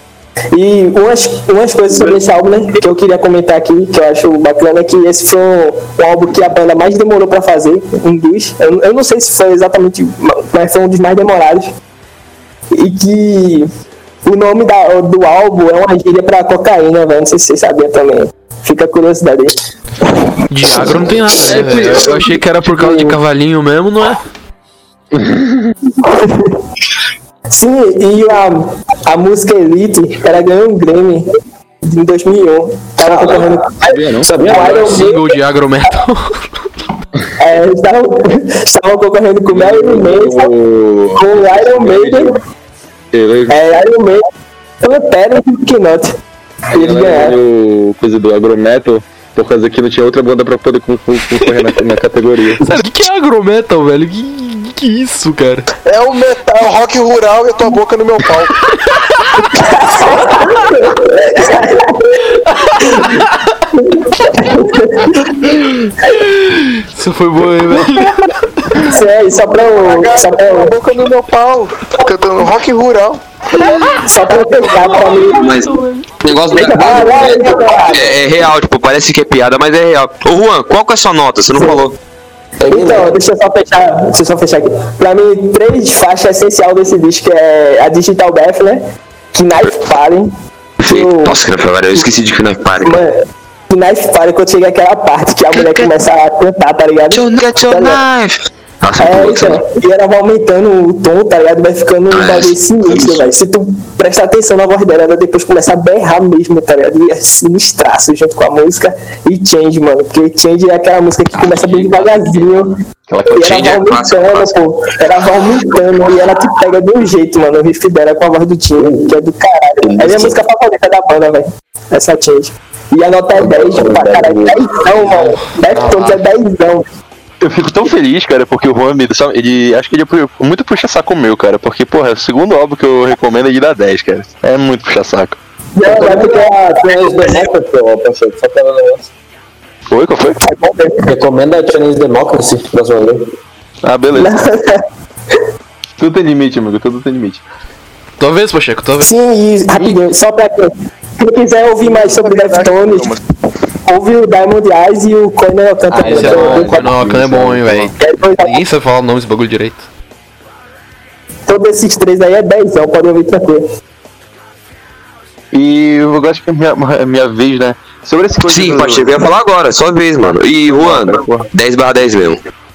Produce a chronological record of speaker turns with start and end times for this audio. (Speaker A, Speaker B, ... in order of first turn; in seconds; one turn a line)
Speaker A: 0.5-11.7
Speaker A: 12.8-13.7
Speaker A: 14.2-19.6
Speaker B: 20.5-24.2
Speaker C: 21.5-22.4
Speaker C: 25.1-25.7
Speaker A: 26.1-26.5
Speaker A: 27.5-31.2
Speaker A: 31.9-35.2
Speaker D: 33.0-33.5
Speaker C: 33.8-34.4
Speaker D: 34.2-35.2
Speaker B: 34.4-36.6
Speaker A: 37.4-40.5
Speaker C: 39.5-42.2
Speaker A: 41.2-42.4
Speaker C: 43.1-43.6
Speaker A: 43.5-44.2
Speaker A: 44.8-46.1
Speaker A: 46.7-47.4
Speaker C: 46.7-52.6
Speaker B: 51.3-51.7
Speaker B: 52.6-55.7
Speaker E: 55.9-58.6
Speaker B: 58.9-59.6
Speaker A: 59.6-62.2
Speaker B: 62.2-63.6
Speaker A: 63.8-65.3
Speaker B: 65.4-68.8
Speaker A: 68.9-70.8
Speaker E: 69.7-73.2
Speaker B: 73.6-76.1
Speaker A: 74.0-75.5
Speaker F: 75.1-75.7
Speaker F: 76.2-82.0
Speaker A: 76.4-78.2
Speaker D: 76.8-77.9
Speaker A: 81.6-81.9
Speaker D: 82.6-83.1
Speaker A: 82.7-88.8
Speaker A: 89.3-90.3
Speaker F: 90.8-93.0
Speaker A: 90.8-91.4
Speaker A: 92.8-93.2
Speaker A: 93.7-98.0
Speaker F: 95.5-95.9
Speaker F: 97.1-99.6
Speaker A: 99.0-112.8
Speaker F: 102.1-103.3
Speaker F: 111.5-112.1
Speaker C: 113.1-113.5
Speaker F: 113.3-114.6
Speaker A: 113.3-126.8
Speaker D: 118.8-119.0
Speaker F: 119.8-120.3
Speaker D: 123.3-124.8
Speaker B: 125.0-126.2
Speaker C: 127.4-135.4
Speaker A: 135.8-137.4
Speaker D: 135.8-139.1
Speaker C: 139.9-140.4
Speaker A: 140.4-141.1
Speaker D: 141.1-143.2
Speaker C: 143.8-144.4
Speaker A: 144.2-144.8
Speaker C: 146.0-147.4
Speaker B: 148.2-149.1
Speaker A: 149.0-153.2
Speaker E: 151.8-153.2
Speaker A: 153.9-156.9
Speaker C: 155.9-157.9
Speaker B: 156.1-159.9
Speaker D: 156.1-156.6
Speaker A: 158.0-158.6
Speaker A: 161.5-163.6
Speaker C: 165.5-169.2
Speaker F: 168.4-172.4
Speaker C: 170.7-171.5